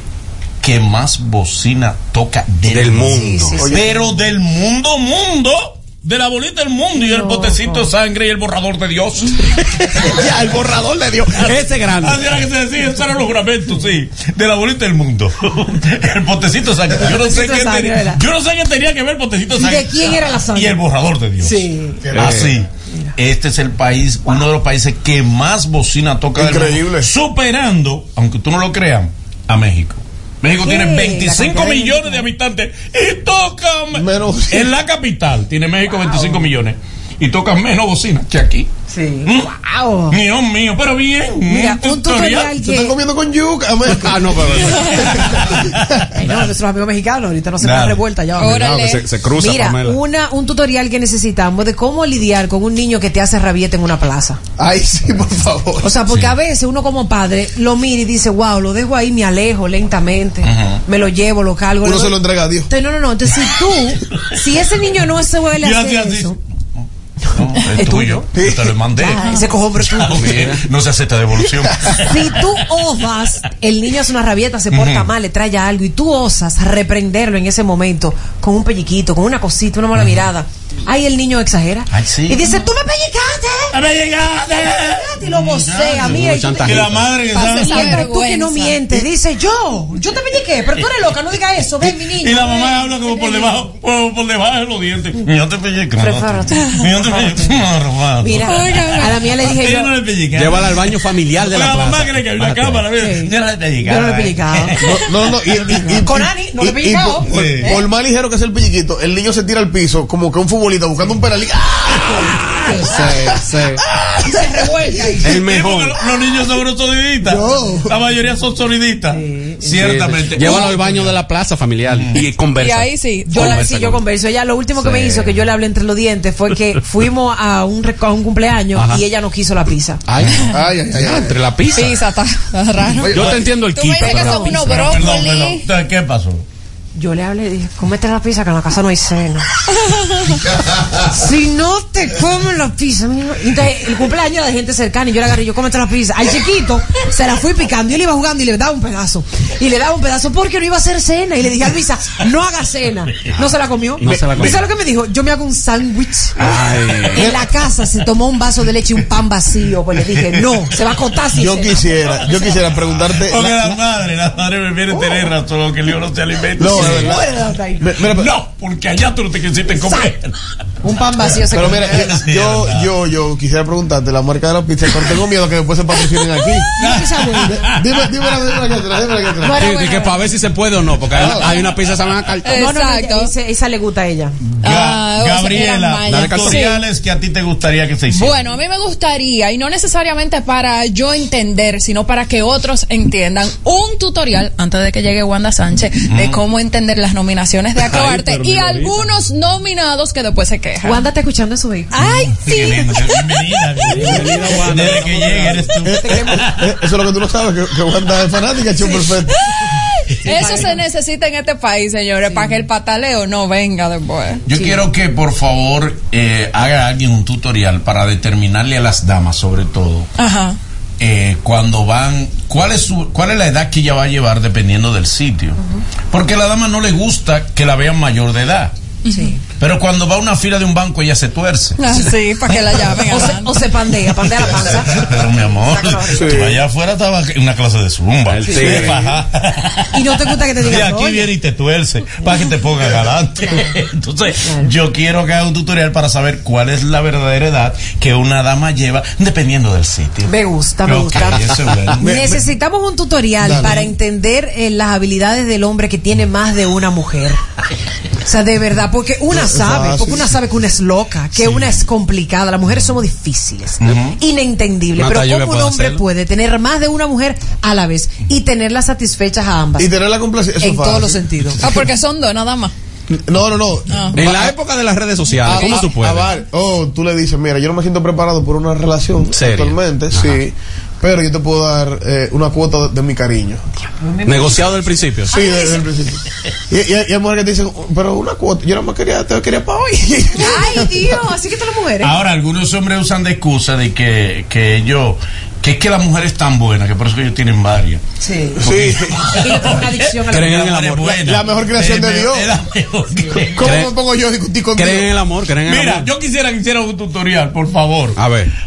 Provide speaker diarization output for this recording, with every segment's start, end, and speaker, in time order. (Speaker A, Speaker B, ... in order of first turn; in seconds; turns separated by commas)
Speaker A: 0.6-10.4, Speaker B: 2.7-3.6, Speaker C: 3.1-3.9, Speaker D: 3.6-4.0, Speaker C: 7.0-7.9, Speaker B: 10.0-12.3, Speaker A: 11.4-38.7, Speaker C: 17.0-18.2, Speaker C: 19.6-20.8, Speaker C: 21.4-22.1, Speaker D: 22.1-22.5, Speaker B: 22.1-22.5, Speaker D: 26.4-27.1, Speaker C: 30.6-32.2, Speaker D: 33.9-34.7, Speaker C: 36.0-36.5, Speaker C: 38.9-40.2, Speaker A: 39.2-39.5, Speaker A: 40.1-42.5, Speaker C: 41.5-43.0, Speaker D: 42.6-45.8, Speaker B: 43.9-45.0, Speaker A: 44.7-46.5, Speaker C: 46.1-54.4, Speaker A: 47.6-48.0, Speaker E: 48.4-49.1, Speaker B: 48.5-50.0, Speaker D: 54.6-55.9, Speaker C: 55.8-66.4, Speaker A: 56.1-56.3, Speaker A: 60.4-60.8, Speaker D: 61.8-62.7, Speaker A: 65.6-72.6, Speaker C: 67.3-68.3, Speaker D: 68.3-68.8, Speaker C: 69.0-70.5, Speaker C: 72.0-83.8, Speaker A: 74.7-75.1, Speaker A: 81.9-82.5, Speaker A: 83.7-88.1, Speaker C: 84.9-92.8, Speaker B: 86.0-87.1, Speaker E: 87.3-88.8, Speaker A: 91.8-98.5, Speaker C: 96.0-97.6, Speaker C: 98.2-99.9, Speaker E: 98.5-99.2, Speaker A: 99.3-105.0, Speaker B: 100.3-102.9, Speaker C: 103.0-103.3, Speaker C: 103.8-104.9, Speaker D: 104.8-112.3, Speaker C: 105.6-107.7, Speaker A: 107.3-107.7, Speaker A: 112.0-114.5, Speaker C: 112.6-113.1, Speaker B: 112.8-113.8, Speaker C: 114.3-115.4, Speaker A: 115.2-121.2, Speaker B: 115.2-116.0, Speaker D: 117.2-117.9, Speaker C: 119.1-119.6, Speaker B: 119.7-124.0, Speaker A: 121.9-122.2, Speaker E: 122.6-123.6, Speaker C: 123.3-130.0, Speaker B: 124.8-125.5, Speaker B: 128.8-129.0, Speaker B: 130.1-132.0, Speaker D: 130.5-131.4, Speaker E: 131.7-135.7, Speaker D: 133.0-133.4, Speaker B: 133.1-135.0, Speaker C: 134.0-134.6, Speaker A: 134.6-136.4, Speaker C: 136.9-139.5, Speaker E: 139.9-140.4, Speaker C: 140.9-156.5, Speaker B: 154.0-154.7, Speaker B: 156.4-157.4, Speaker C: 157.1-162.5, Speaker A: 160.2-160.6, Speaker D: 161.3-163.8, Speaker A: 163.0-167.3, Speaker C: 164.9-165.3, Speaker D: 166.6-167.2, Speaker C: 166.7-167.9, Speaker D: 167.8-168.3, Speaker A: 168.0-170.3, Speaker C: 169.8-170.1, Speaker C: 170.8-172.1, Speaker A: 171.3-172.9, Speaker D: 171.5-176.7, Speaker A: 176.8-178.4, Speaker C: 176.8-177.6, Speaker D: 177.5-179.6, Speaker C: 179.4-180.2, Speaker B: 179.6-182.5, Speaker D: 181.1-181.5, Speaker A: 181.1-181.5, Speaker E: 182.4-183.3, Speaker C: 182.5-184.4, Speaker A: 184.4-188.4, Speaker E: 184.6-186.8, Speaker B: 186.1-186.7, Speaker E: 188.1-201.1, Speaker A: 196.1-196.4, Speaker B: 197.8-198.9, Speaker C: 200.8-201.9, Speaker E: 201.9-203.4, Speaker A: 202.0-206.7, Speaker E: 204.0-204.3, Speaker B: 204.2-204.6, Speaker C: 204.6-205.1, Speaker D: 205.8-209.4, Speaker C: 205.8-206.5, Speaker C: 208.8-209.1, Speaker E: 210.0-214.4, Speaker C: 210.2-210.8, Speaker C: 212.3-212.6, Speaker A: 214.5-220.1, Speaker C: 214.5-214.8, Speaker E: 220.2-220.6, Speaker A: 221.0-225.6, Speaker C: 225.6-225.8, Speaker A: 226.1-228.7, Speaker E: 229.1-229.3, Speaker C: 229.1-229.4, Speaker A: 229.6-231.8, Speaker E: 231.8-233.6, Speaker C: 233.0-236.4, Speaker A: 234.5-252.4, Speaker B: 236.2-236.6, Speaker B: 238.3-239.2, Speaker C: 238.5-238.9, Speaker C: 239.9-241.3, Speaker C: 244.4-244.7, Speaker C: 250.3-257.4, Speaker D: 252.0-252.4, Speaker D: 253.4-253.8, Speaker A: 253.6-253.9, Speaker C: 258.2-269.9, Speaker D: 259.3-260.4, Speaker A: 261.4-261.8, Speaker A: 263.8-264.2, Speaker B: 264.9-266.0, Speaker D: 269.8-271.8, Speaker C: 270.6-271.6, Speaker E: 271.6-272.7, Speaker D: 273.1-274.5, Speaker E: 273.9-274.2, Speaker B: 274.1-276.3, Speaker D: 275.4-283.6, Speaker E: 275.5-275.8, Speaker B: 279.3-280.4, Speaker C: 284.0-285.8, Speaker B: 284.2-285.3, Speaker D: 285.3-291.1, Speaker C: 290.4-292.1, Speaker A: 292.0-298.0, Speaker C: 298.2-298.6, Speaker D: 298.6-299.3, Speaker A: 298.6-303.8, Speaker C: 299.3-300.8, Speaker B: 300.3-301.2, Speaker D: 301.2-302.5, Speaker D: 303.5-305.1, Speaker B: 303.6-303.9, Speaker B: 304.8-306.1, Speaker A: 305.6-308.2, Speaker B: 308.2-308.5